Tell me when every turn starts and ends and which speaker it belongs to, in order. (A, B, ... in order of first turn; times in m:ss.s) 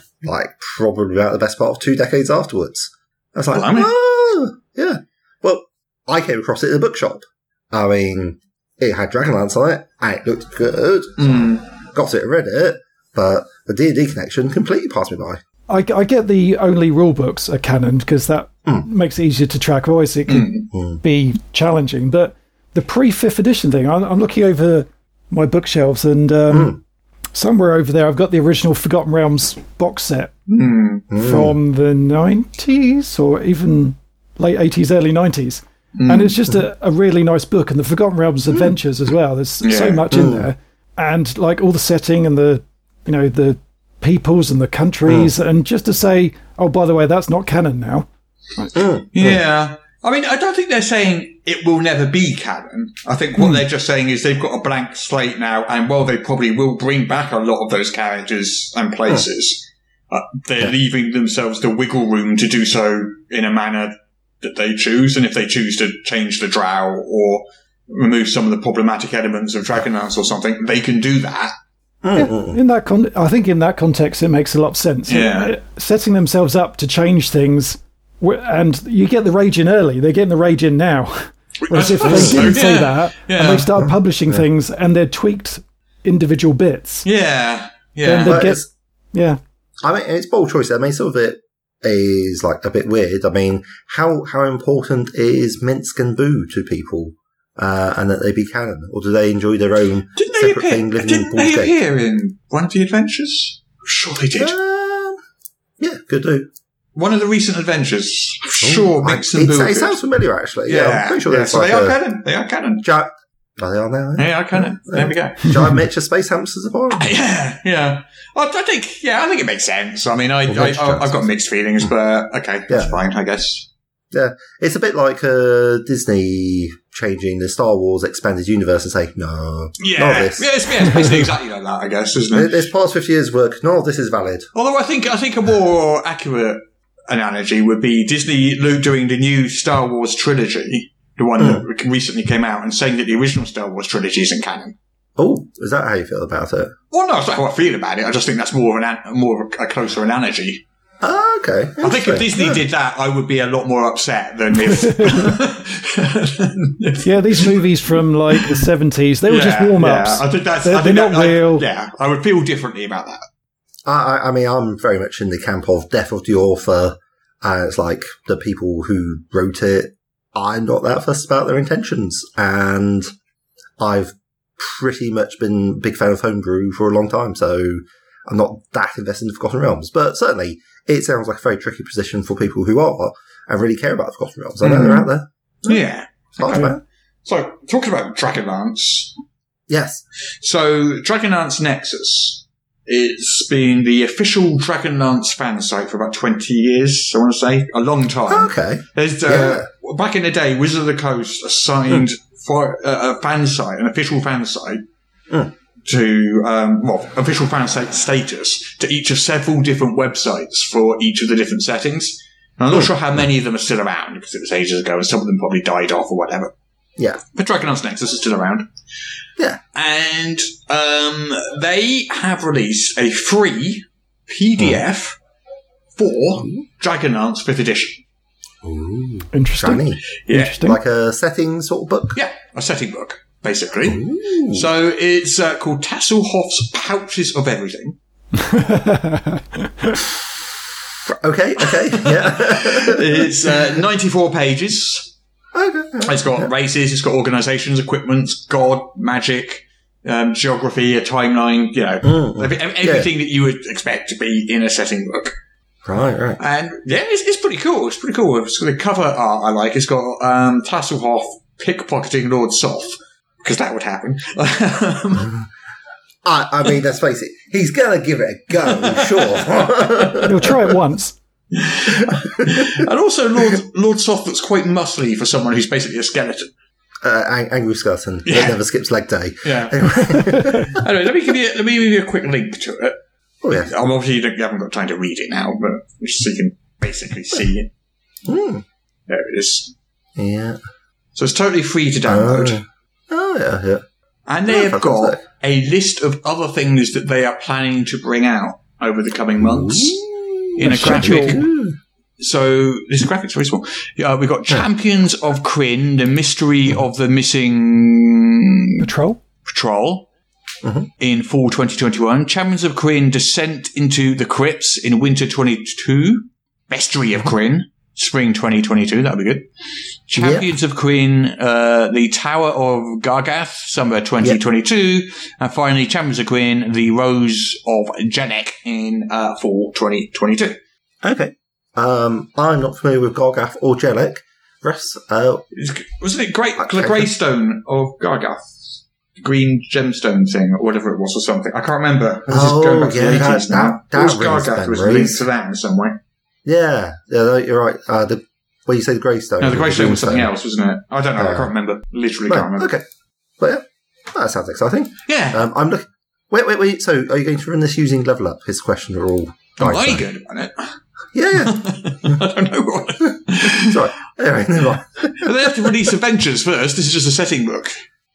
0:00.2-0:15.4 A
0:03.5-0:03.9 B
0:11.2-0:11.6 B
0:15.7-0:26.8 C
0:20.3-0:20.7 B
0:20.7-0:21.0 A
0:26.5-0:26.8 A
0:27.3-0:30.3 C
0:30.5-0:31.1 B
0:31.1-0:31.5 A
0:31.2-0:48.1 C
0:36.0-0:36.4 B
0:39.6-0:40.0 B
0:40.1-0:40.5 A
0:45.0-0:45.3 A
0:48.7-0:49.4 A
0:49.1-1:11.5 B
1:12.0-1:12.6 A
1:12.1-1:27.0 C
1:15.1-1:15.5 B
1:21.7-1:23.7 B
1:22.1-1:22.5 A
1:23.8-1:24.4 A
1:27.0-1:28.4 B
1:28.0-1:29.4 C
1:28.2-1:28.7 A
1:29.8-1:41.8 A
1:40.2-1:44.5 B
1:44.4-1:45.2 A
1:45.8-1:46.5 A
1:46.9-1:50.0 B
1:48.6-1:52.0 A
1:50.6-1:52.8 B
1:52.8-1:57.1 A
1:54.2-1:55.5 B
1:56.9-2:03.7 B
2:00.5-2:01.3 A
2:02.7-2:03.0 A
2:04.1-2:11.3 A
2:09.8-2:12.6 B
2:12.3-2:14.5 A
2:14.5-2:24.7 B
2:21.4-2:21.6 A
2:25.2-2:26.7 A
2:26.9-2:30.6 B
2:31.0-2:32.6 A
2:31.8-2:37.6 B
2:34.7-2:35.2 C
2:37.0-2:41.6 C
2:38.3-2:38.6 B
2:39.3-2:43.2 B
2:43.8-2:53.1 A
2:53.8-3:05.8 A
3:04.6-3:05.1 B
3:05.6-3:09.1 B
3:06.4-3:06.8 A
3:09.7-3:10.0 A
3:10.4-3:24.8 B
3:18.3-3:19.7 A
3:25.8-3:36.5 B
3:37.3-3:38.7 B
3:39.7-3:45.2 B
3:44.6-3:44.8 A
3:46.0-3:48.0 B
3:48.6-3:50.0 A
3:49.3-3:50.8 C
3:50.2-3:50.6 B
3:50.6-3:52.2 A
3:52.1-3:58.0 B
3:53.8-3:54.7 A
3:58.4-4:00.0 C
4:01.0-4:03.6 A
4:01.7-4:05.1 B
4:05.5-4:06.5 A
4:06.0-4:15.3 B
4:12.0-4:13.1 A
4:15.8-4:16.4 A
4:16.4-4:25.3 B
4:26.2-4:30.6 A
4:28.7-4:30.1 B
4:30.2-4:31.1 C
4:31.5-4:36.5 B
4:32.0-4:32.8 A
4:37.0-4:40.8 A
4:38.3-4:38.6 B
4:39.4-4:43.0 B
4:43.4-4:43.7 A
4:43.5-4:47.7 B
4:48.2-4:48.6 A
4:49.1-4:49.7 B
4:50.2-4:50.6 A
4:51.2-4:52.6 B
4:52.0-4:53.8 A
4:54.3-5:01.5 B
4:54.5-4:55.2 A
4:59.4-5:01.8 A
5:00.6-5:01.4 C
5:02.2-5:08.7 B
5:08.8-5:09.2 C
5:09.4-5:10.1 B
5:10.6-5:10.9 A
5:11.0-5:19.5 B
5:20.1-5:30.6 B
5:20.2-5:20.5 A
5:31.0-5:35.4 A
5:35.5-5:38.5 B
5:36.6-5:37.1 A
5:39.2-5:46.0 B
5:42.3-5:45.2 A
5:46.4-5:50.3 A
5:49.4-5:52.7 B
5:51.2-5:51.5 A
5:52.3-5:52.8 A
5:53.4-6:00.0 A
5:55.1-5:55.4 B
5:59.6-6:00.8 B
6:01.1-6:02.2 A
6:01.3-6:03.9 B
6:03.4-6:05.8 A
6:05.1-6:07.8 B